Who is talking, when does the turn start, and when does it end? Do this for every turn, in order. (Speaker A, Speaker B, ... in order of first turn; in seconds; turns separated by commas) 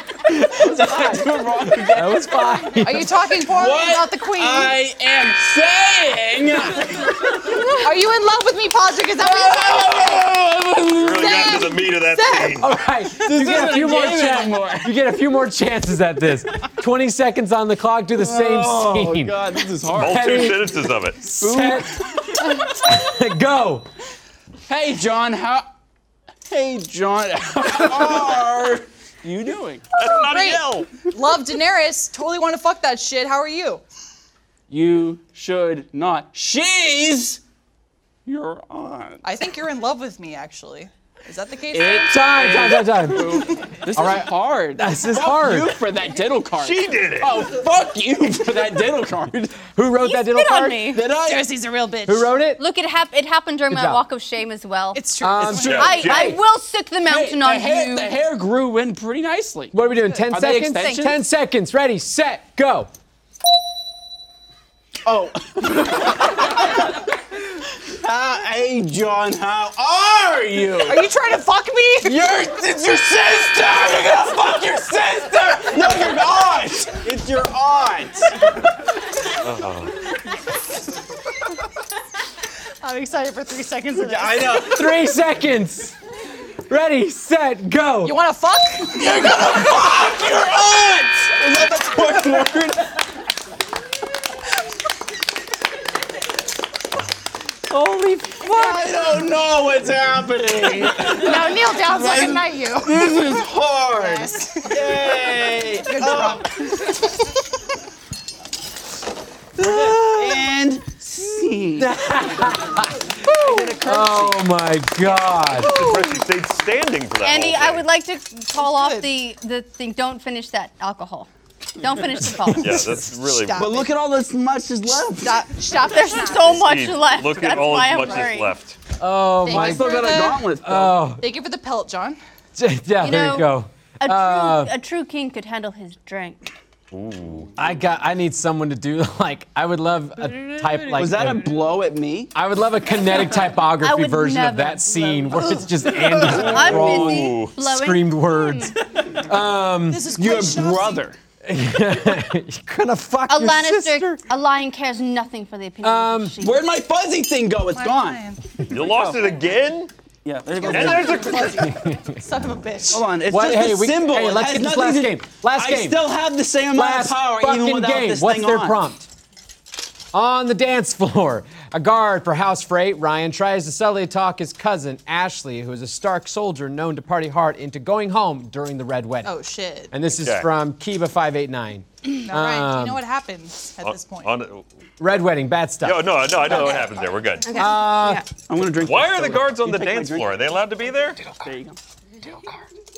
Speaker A: 0.2-3.1, Speaker B: 0.5-2.5, Speaker C: 2.8-4.8, Speaker B: 3.4-7.8, Speaker C: 7.8-10.2, Speaker B: 9.2-11.7, Speaker D: 10.9-12.8, Speaker C: 11.1-12.6, Speaker A: 12.6-23.9, Speaker B: 13.1-14.9, Speaker B: 18.2-20.5, Speaker D: 19.9-21.3, Speaker B: 21.3-22.4, Speaker B: 24.7-25.6, Speaker B: 26.5-29.9, Speaker D: 29.9-30.9, Speaker C: 30.0-33.8, Speaker B: 34.7-37.4, Speaker B: 38.2-39.2, Speaker C: 39.2-42.2, Speaker B: 41.7-49.4, Speaker A: 42.0-45.8, Speaker D: 46.6-47.4, Speaker A: 49.3-51.0, Speaker E: 50.0-50.9, Speaker C: 50.3-52.4, Speaker B: 50.5-51.5, Speaker A: 52.0-52.6, Speaker E: 52.6-55.0, Speaker A: 53.7-54.0, Speaker C: 54.9-56.2, Speaker A: 55.2-56.4, Speaker D: 55.4-56.4, Speaker E: 55.7-58.1, Speaker B: 57.0-61.2, Speaker A: 59.7-62.9, Speaker B: 65.0-66.8, Speaker B: 67.9-71.0, Speaker C: 70.8-72.2, Speaker B: 72.0-78.3, Speaker D: 79.4-80.1, Speaker C: 82.8-84.6, Speaker B: 84.0-85.1, Speaker A: 84.6-86.0, Speaker A: 86.7-88.1, Speaker C: 88.0-89.3, Speaker B: 88.9-92.9, Speaker B: 97.7-106.8, Speaker C: 98.4-99.2, Speaker C: 100.9-103.3, Speaker C: 103.9-105.1, Speaker C: 105.8-107.3, Speaker A: 109.6-110.5, Speaker B: 109.6-111.9, Speaker A: 111.8-115.7, Speaker B: 113.3-114.5, Speaker C: 115.1-116.2, Speaker D: 115.6-117.8, Speaker E: 117.2-122.9, Speaker C: 118.5-119.1, Speaker A: 122.4-122.9, Speaker C: 122.5-123.9, Speaker D: 122.6-123.8, Speaker B: 123.5-125.4, Speaker C: 125.0-126.7, Speaker E: 125.8-128.5, Speaker D: 126.4-128.8, Speaker A: 129.0-131.2, Speaker C: 129.4-130.4, Speaker B: 129.4-131.1, Speaker C: 131.2-132.2, Speaker A: 132.6-134.7, Speaker E: 133.0-136.5, Speaker D: 136.9-137.5, Speaker A: 137.6-141.5, Speaker B: 140.9-142.3, Speaker A: 142.3-150.1, Speaker E: 143.8-148.7, Speaker D: 146.2-147.5, Speaker B: 148.9-149.2, Speaker C: 149.9-151.0, Speaker B: 150.1-151.2, Speaker A: 151.4-154.2, Speaker E: 153.3-156.7, Speaker A: 155.8-156.3, Speaker B: 156.4-158.2, Speaker C: 157.7-158.4, Speaker D: 158.7-159.9, Speaker B: 158.8-159.3, Speaker B: 160.2-161.3, Speaker D: 160.6-161.7, Speaker C: 160.6-163.0, Speaker A: 160.7-162.2, Speaker B: 162.9-168.8, Speaker A: 163.2-166.0, Speaker A: 166.7-169.1, Speaker A: 170.1-179.3, Speaker C: 179.2-179.9, Speaker A: 179.9-183.0, Speaker D: 180.1-180.5, Speaker C: 182.2-184.3, Speaker D: 183.8-184.6, Speaker A: 185.0-186.2, Speaker D: 185.8-187.6, Speaker E: 186.4-188.2, Speaker A: 187.5-188.2, Speaker B: 188.5-190.3, Speaker D: 188.7-191.2, Speaker B: 191.2-192.5